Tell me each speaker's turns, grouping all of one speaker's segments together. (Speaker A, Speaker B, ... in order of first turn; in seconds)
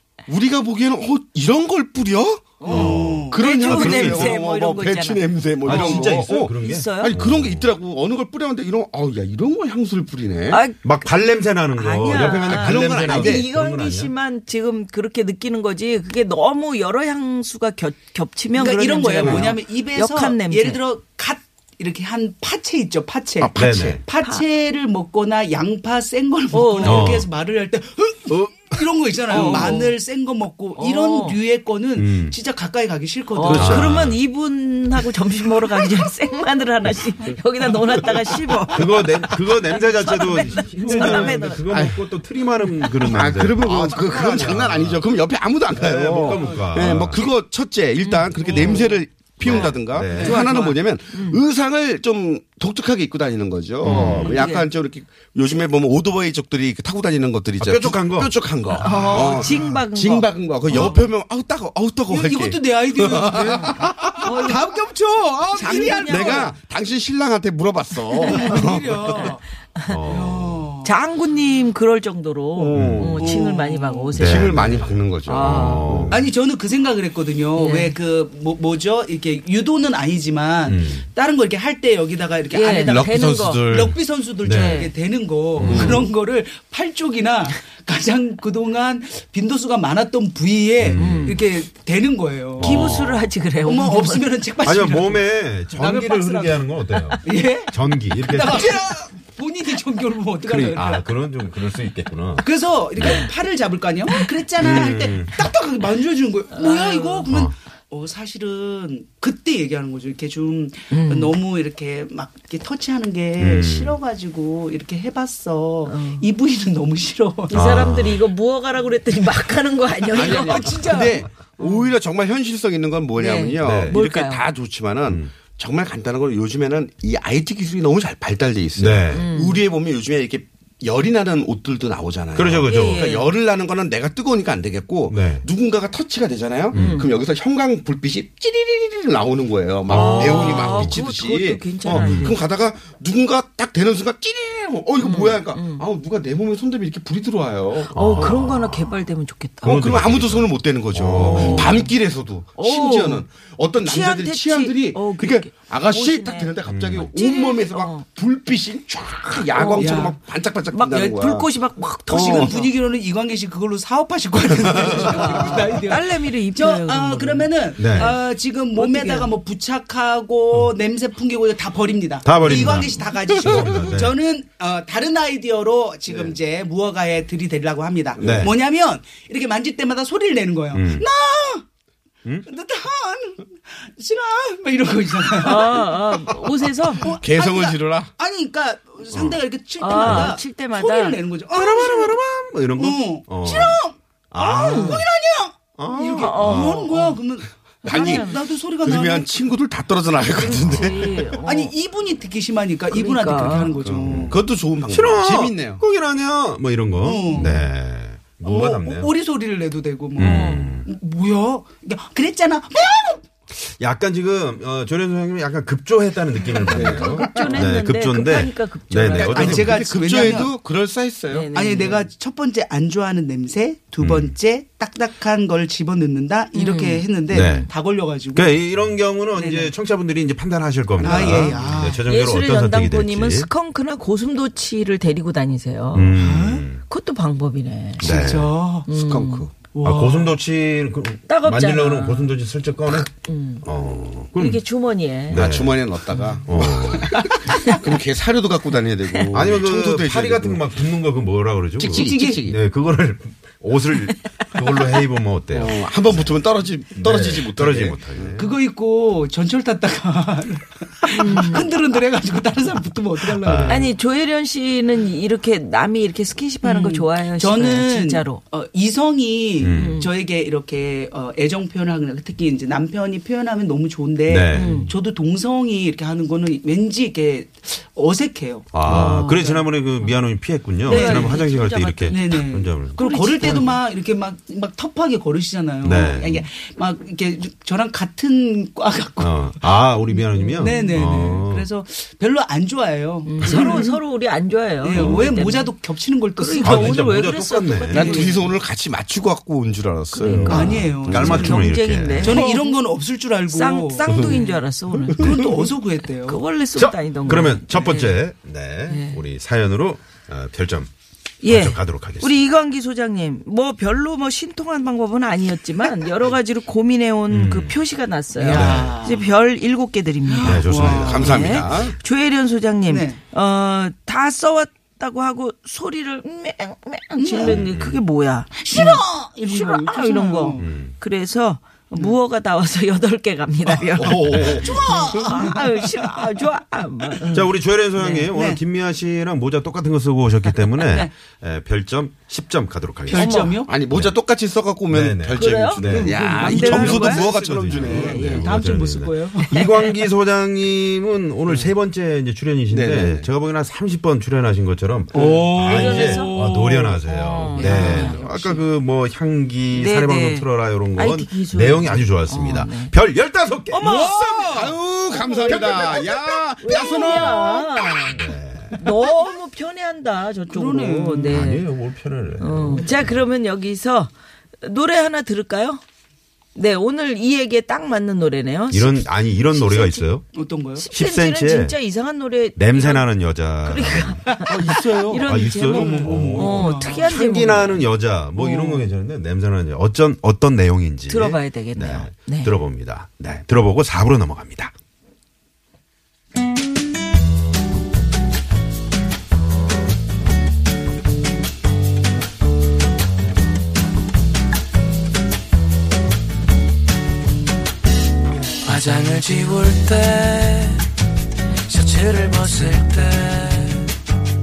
Speaker A: 0.3-10.6, 12.1-13.5, 23.4-24.0, 41.1-42.0, 42.9-64.5, 65.6-69.3, 72.5-73.5, 74.1-76.2, 82.8-84.0, 85.6-86.0, 120.1-148.4, 149.6-161.5, 162.1-162.5, 164.7-165.5, 178.2-178.5, 187.2-188.1, 197.8-201.3, 203.8-205.8, 216.7-217.5, 219.5-221.5, 238.0-238.3, 238.9-239.5, 245.3-250.9, 251.8-252.6, 255.5-258.5, 297.9-301.6, 304.1-304.4, 305.1-305.3, 320.9-322.0, 334.0-334.9, 343.7-348.3, 351.5-351.7, 352.7-353.3, 355.2-355.5, 364.4-368.1, 384.4-386.6
Speaker B: 2.6-7.2, 10.5-10.9, 11.7-20.8, 26.5-27.2, 29.3-30.0, 30.8-31.4, 33.3-41.9, 46.8-47.1, 48.0-51.4, 53.8-54.7, 58.8-61.0, 64.2-64.7, 65.5-66.5, 68.2-70.2, 70.8-76.0, 77.6-77.9, 82.5-83.7, 84.5-84.9, 91.0-91.4, 92.6-94.3, 103.0-103.3, 106.5-107.3, 110.9-111.3, 115.9-116.2, 117.5-121.9, 123.2-124.5, 129.1-129.6, 132.6-133.3, 136.7-137.1, 139.9-142.4, 145.0-145.9, 147.9-149.8, 151.3-151.8, 152.6-153.2, 153.8-158.1, 159.5-160.1, 160.7-162.7, 164.7-168.2, 168.7-169.3, 185.4-187.1, 189.8-191.2, 194.7-195.0, 196.2-197.2, 197.8-198.4, 200.3-201.7, 202.9-203.8, 210.2-210.7, 216.6-220.5, 221.3-222.1, 226.5-227.0, 231.2-236.2, 236.9-238.1, 238.9-239.5, 241.3-242.4, 243.2-243.7, 244.4-245.4, 247.5-247.8, 249.1-249.4, 261.1-261.7, 263.7-268.4, 269.7-270.1, 274.5-274.9, 278.8-280.2, 280.8-282.3, 283.0-283.7, 290.1-291.4, 293.2-295.7, 296.4-298.5, 300.1-302.8, 303.5-305.7, 306.2-308.2, 308.9-309.2, 311.4-338.2, 343.1-343.6, 345.3-348.6, 349.5-349.9, 355.6-356.4, 357.1-358.6, 359.7-362.9, 363.7-364.6, 365.1-371.7, 372.4-375.8, 376.5-380.1, 380.8-383.1, 383.6-388.9, 391.1-392.5
Speaker C: 2.6-4.3, 18.5-33.9, 40.9-41.2, 50.1-50.7, 60.7-61.0, 62.1-66.5, 68.2-69.4, 70.1-70.9, 73.2-74.1, 76.1-92.9, 93.6-101.1, 102.4-117.6, 120.1-121.2, 159.8-160.2, 162.1-181.6, 182.4-185.9, 187.0-192.2, 192.8-199.3, 201.4-204.5, 207.0-207.6, 208.4-213.2, 216.5-217.5, 219.1-220.6, 221.5-228.6, 229.3-229.7, 231.0-232.1, 236.1-236.7, 238.0-238.9, 239.7-240.4, 246.1-247.6, 251.9-252.4, 258.4-263.9, 266.6-279.4, 280.9-281.4, 282.1-289.6, 290.6-294.0, 294.8-297.1, 298.0-298.4, 300.4-301.7, 302.2-304.6, 305.1-306.4, 318.3-319.3, 320.2-321.5, 322.9-323.2, 327.2-327.6, 328.6-330.7, 333.7-336.4, 338.2-338.6, 340.6-341.1, 343.1-343.7, 345.9-347.3, 347.9-349.7, 355.1-358.4, 363.8-364.8, 370.5-371.5, 380.3-380.9, 385.8-387.1
Speaker D: 2.7-4.3, 5.6-7.7, 10.8-14.1, 19.2-19.5, 23.6-24.0, 26.8-27.3, 28.3-28.8, 29.3-29.8, 32.0-32.4, 33.5-34.2, 38.7-45.0, 45.7-47.2, 49.4-50.4, 53.8-54.4, 57.6-59.8, 69.9-70.6, 72.7-73.2, 74.1-76.3, 80.7-81.1, 84.4-84.9, 85.6-86.1, 90.8-91.4, 92.6-93.3, 94.6-98.8, 100.4-103.3, 104.6-105.4, 107.2-107.5, 113.4-114.0, 117.5-118.2, 123.6-124.0, 125.0-125.3, 128.8-129.3, 132.3-133.1, 135.1-135.4, 136.7-137.1, 139.9-141.1, 141.9-142.4, 147.9-148.9, 149.6-151.9, 156.7-157.1, 167.8-168.1, 172.2-174.1, 178.2-178.5, 180.7-181.1, 189.1-189.4, 190.0-190.4, 191.5-193.8, 194.3-195.1, 195.8-196.9, 200.4-201.0, 204.0-209.1, 210.2-210.9, 213.5-219.8, 224.0-224.3, 227.3-227.7, 228.3-233.5, 235.9-236.8, 238.0-238.5, 239.8-243.1, 243.6-244.6, 245.3-245.8, 246.4-247.3, 249.3-256.4, 256.9-258.5, 263.4-263.9, 269.6-270.0, 274.3-274.9, 278.7-283.8, 285.8-286.5, 289.2-291.7, 293.4-293.8, 294.9-295.3, 296.6-298.2, 300.2-302.5, 306.8-310.9, 311.4-312.4, 317.3-317.8, 318.5-319.0, 320.4-321.8, 327.4-328.0, 330.6-330.9, 334.0-334.9, 337.3-344.2, 344.9-364.1, 368.1-368.8, 371.2-373.2, 378.7-380.2, 380.9-381.8, 382.6-384.3, 385.2-394.7
Speaker E: 408.7-410.7, 411.7-413.7